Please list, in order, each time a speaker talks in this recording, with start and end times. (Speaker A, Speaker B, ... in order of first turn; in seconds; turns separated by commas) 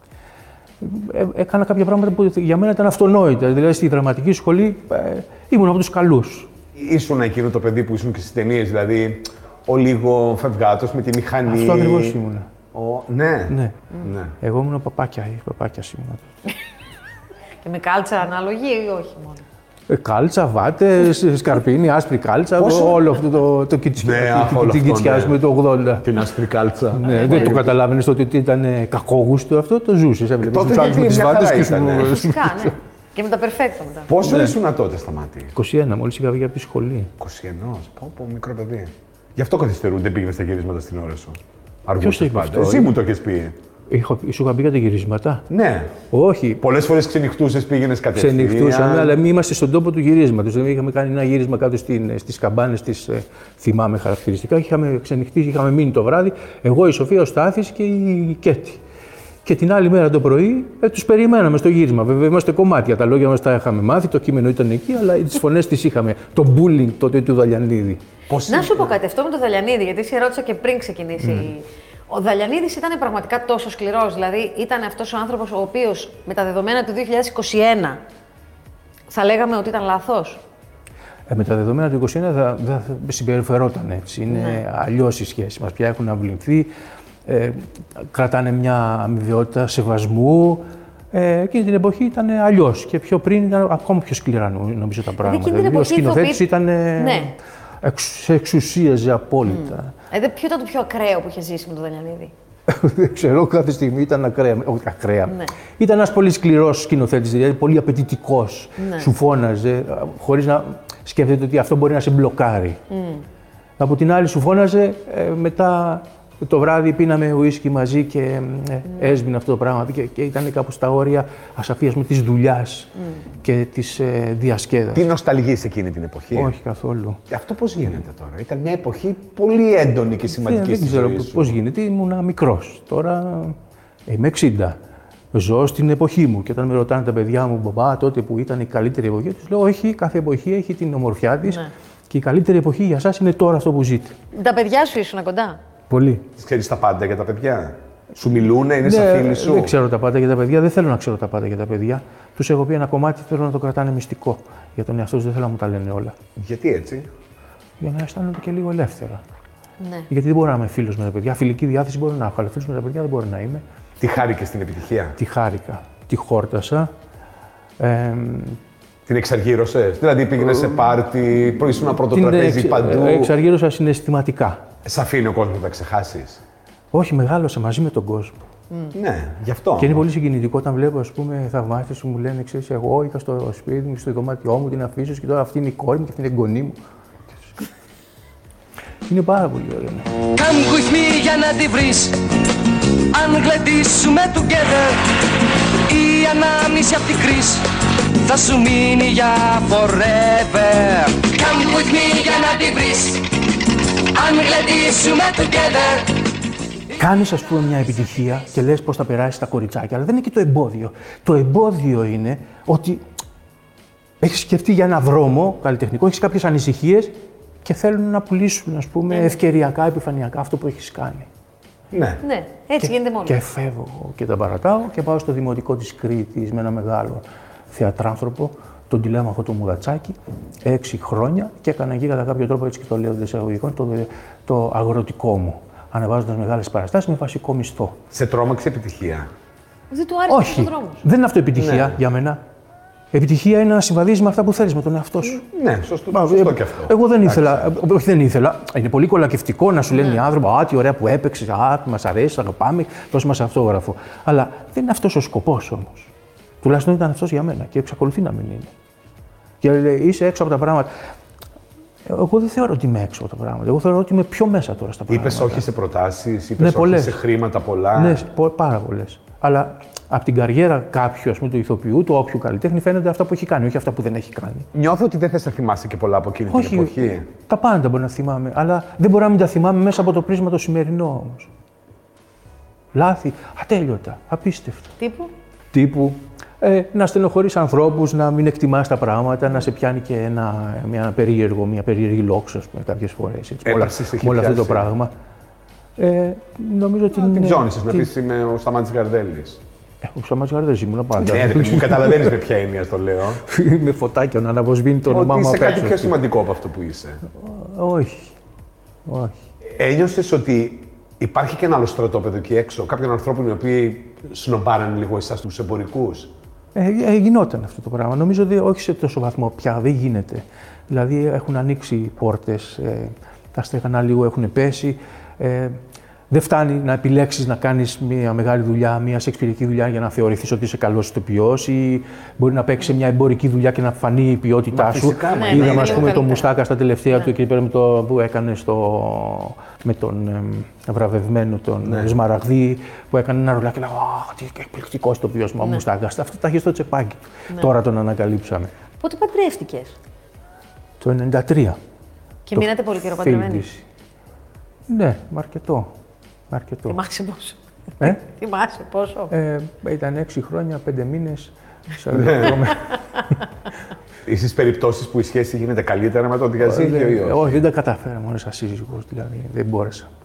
Speaker A: 0.8-6.5, Speaker B: 6.7-12.2, Speaker A: 11.5-12.5, Speaker B: 12.7-14.3, Speaker A: 13.5-13.8, Speaker A: 14.4-16.3, Speaker C: 17.6-19.4, Speaker A: 19.9-26.1, Speaker B: 22.6-23.0, Speaker B: 24.0-25.4, Speaker B: 26.0-27.8, Speaker A: 26.9-32.7, Speaker C: 27.1-27.6, Speaker B: 30.4-32.2, Speaker C: 32.0-34.1, Speaker B: 34.1-35.5, Speaker A: 34.2-34.5, Speaker A: 35.5-37.1, Speaker B: 37.2-43.5, Speaker A: 42.0-42.9, Speaker A: 43.9-45.5, Speaker B: 45.5-45.9, Speaker A: 46.1-46.6, Speaker B: 46.6-49.1, Speaker A: 48.1-58.8, Speaker A: 59.4-68.0, Speaker B: 68.3-69.0, Speaker C: 68.5-78.0, Speaker A: 71.2-71.5, Speaker C: 79.1-80.4, Speaker A: 81.3-86.7, Speaker C: 84.3-84.6, Speaker A: 87.2-99.9, Speaker C: 95.2-97.3, Speaker C: 99.5-102.3, Speaker A: 102.7-112.8, Speaker C: 105.3-105.5, Speaker C: 108.8-109.1, Speaker C: 112.9-113.2, Speaker A: 113.8-125.0, Speaker B: 124.9-126.5, Speaker A: 126.3-127.2, Speaker B: 127.3-131.6, Speaker A: 130.3-133.6, Speaker A: 134.1-134.8, Speaker A: 135.3-144.1, Speaker C: 141.4-141.7, Speaker C: 144.3-145.6, Speaker A: 145.9-146.3, Speaker B: 146.4-149.7, Speaker A: 148.8-156.1, Speaker B: 156.4-157.1, Speaker A: 157.8-159.2, Speaker C: 159.8-160.1, Speaker A: 160.1-163.6, Speaker B: 164.0-165.2, Speaker A: 165.2-166.9, Speaker A: 167.8-168.6, Speaker B: 169.1-173.3, Speaker A: 172.1-174.6, Speaker B: 174.8-176.4, Speaker A: 176.9-178.4, Speaker B: 178.9-180.0, Speaker A: 179.8-186.8, Speaker A: 189.1-190.1, Speaker D: 190.3-192.4, Speaker D: 192.9-206.2, Speaker A: 206.9-213.0, Speaker A: 214.2-217.1, Speaker A: 217.6-221.3, Speaker C: 219.1-219.3, Speaker B: 221.9-222.2, Speaker C: 222.2-223.4, Speaker A: 222.8-238.0, Speaker B: 238.1-239.3, Speaker C: 239.9-241.0, Speaker A: 240.3-242.4, Speaker B: 241.6-242.0, Speaker A: 243.1-245.4, Speaker B: 245.3-247.7, Speaker A: 246.1-256.1, Speaker A: 256.6-258.7, Speaker A: 259.6-260.9, Speaker A: 262.1-265.7, Speaker B: 265.1-268.2, Speaker A: 266.6-267.2, Speaker A: 267.9-274.7, Speaker B: 274.7-277.3, Speaker A: 276.5-281.5, Speaker A: 282.9-284.9, Speaker C: 285.0-285.3, Speaker A: 285.7-295.1, Speaker B: 293.6-294.9, Speaker A: 296.0-298.1, Speaker B: 297.1-299.6, Speaker A: 300.0-302.3, Speaker B: 301.2-303.4, Speaker A: 303.4-306.2, Speaker B: 305.1-307.2, Speaker A: 307.4-308.3, Speaker A: 309.1-309.4, Speaker B: 309.8-316.3, Speaker A: 316.7-325.8, Speaker A: 326.3-348.7, Speaker B: 334.7-336.2, Speaker C: 335.3-336.5, Speaker B: 341.8-342.1, Speaker C: 349.0-349.9, Speaker A: 351.0-351.8, Speaker C: 352.5-353.7, Speaker A: 352.6-353.8, Speaker A: 354.9-355.9, Speaker A: 356.5-357.0, Speaker C: 356.9-359.3, Speaker A: 359.3-362.9, Speaker B: 362.1-362.7, Speaker B: 364.2-367.6, Speaker A: 366.6-370.1